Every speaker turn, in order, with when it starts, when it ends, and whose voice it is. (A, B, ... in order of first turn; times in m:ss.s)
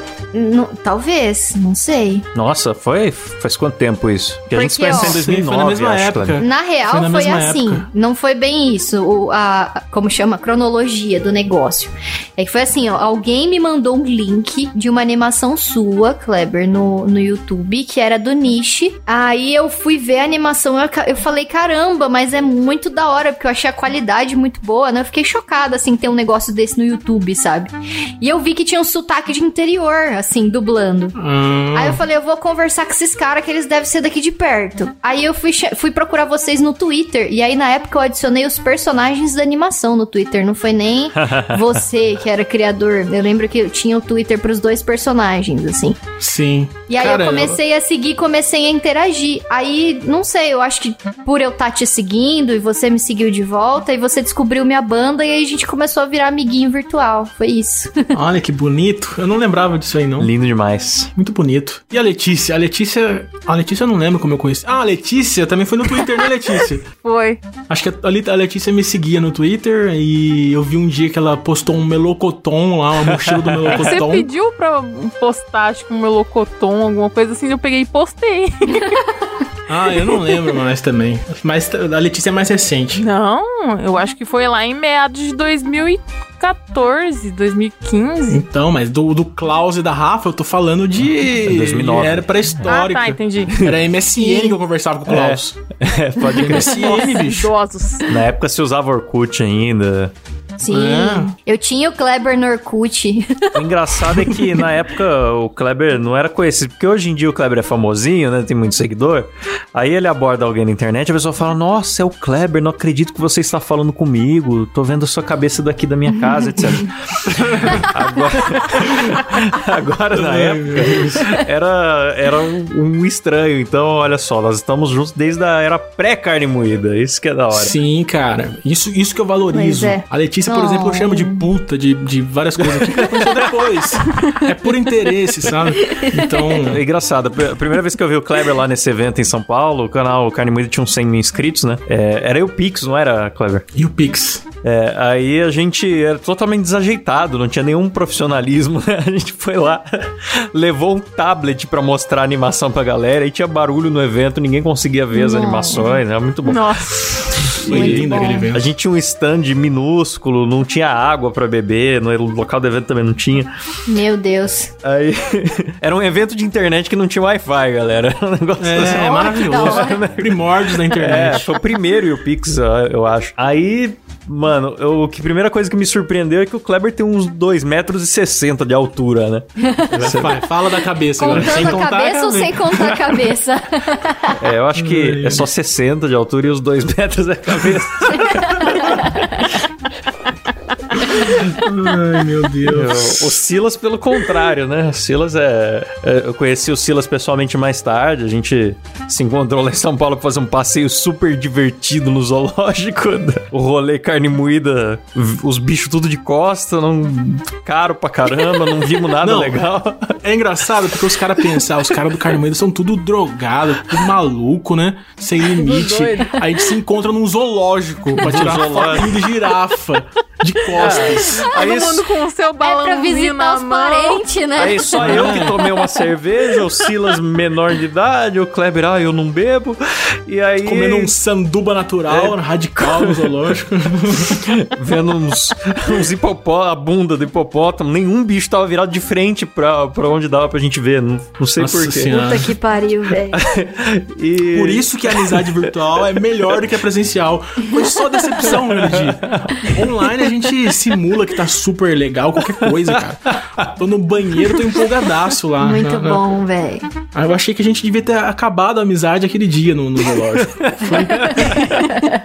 0:00.3-0:02.3 A
0:02.3-0:06.4 B
0:04.5-0:05.2 A
0:04.8-0:07.9 C
0:06.4-0:31.2 A
0:31.2-0:32.0 C
0:31.7-0:46.0 A
0:41.2-0:41.7 B
0:46.2-0:47.6 C
0:46.9-0:58.2 A
0:58.1-1:00.3 C
1:00.2-1:01.1 B
1:01.2-1:06.8 C
1:06.9-1:07.4 D
1:07.7-1:14.3 C
1:13.1-1:13.8 B
1:13.7-1:19.1 D
1:19.7-1:23.0 C
1:23.0-1:28.4 D
1:28.3-1:35.6 C
1:31.4-1:32.7 B
1:32.6-1:33.7 D
1:34.2-1:34.6 A
1:35.1-1:37.3 B
1:36.3-1:37.5 C
1:36.5-1:38.2 D
1:38.1-1:40.1 B
1:40.6-1:43.7 A
1:40.7-1:41.3 C
1:43.5-2:07.7 B
2:00.1-2:01.3 C
2:07.5-2:16.8 C
2:09.5-2:11.4 A
2:12.6-2:13.8 B
2:16.5-2:23.7 B
2:23.8-2:24.4 C
2:24.6-2:43.5 B
2:35.1-2:36.0 A
2:36.4-2:37.5 D
2:37.5-2:38.7 C
2:37.7-2:38.5 A
2:43.9-2:44.7 A
2:44.8-3:00.4 B
2:48.6-2:51.6 C
2:49.0-2:50.0 A
2:59.6-3:00.0 A
2:59.9-3:03.3 C
3:01.2-3:04.4 A
3:01.3-3:01.7 B
3:04.4-3:09.6 B
3:04.8-3:05.5 C
3:11.0-3:13.4 C
3:12.6-3:30.2 B
3:29.2-3:29.7 C
3:30.2-3:41.5 C
3:35.4-3:36.6 D
3:38.2-3:39.2 B
3:40.7-3:44.3 D
3:40.8-3:42.1 B
3:42.6-3:45.5 A
3:44.6-3:51.1 B
3:45.0-3:45.6 C
3:50.6-3:54.6 C
3:52.1-3:53.3 B
3:54.2-4:02.4 B
4:01.6-4:02.5 C
4:02.1-4:03.4 A
4:03.3-4:05.7 B
4:04.5-4:16.3 C
4:08.5-4:09.7 B
4:13.3-4:13.7 B
4:14.4-4:14.8 B
4:15.6-4:16.9 A
4:17.1-4:21.7 C
4:20.5-4:21.9 B
4:21.9-4:22.2 A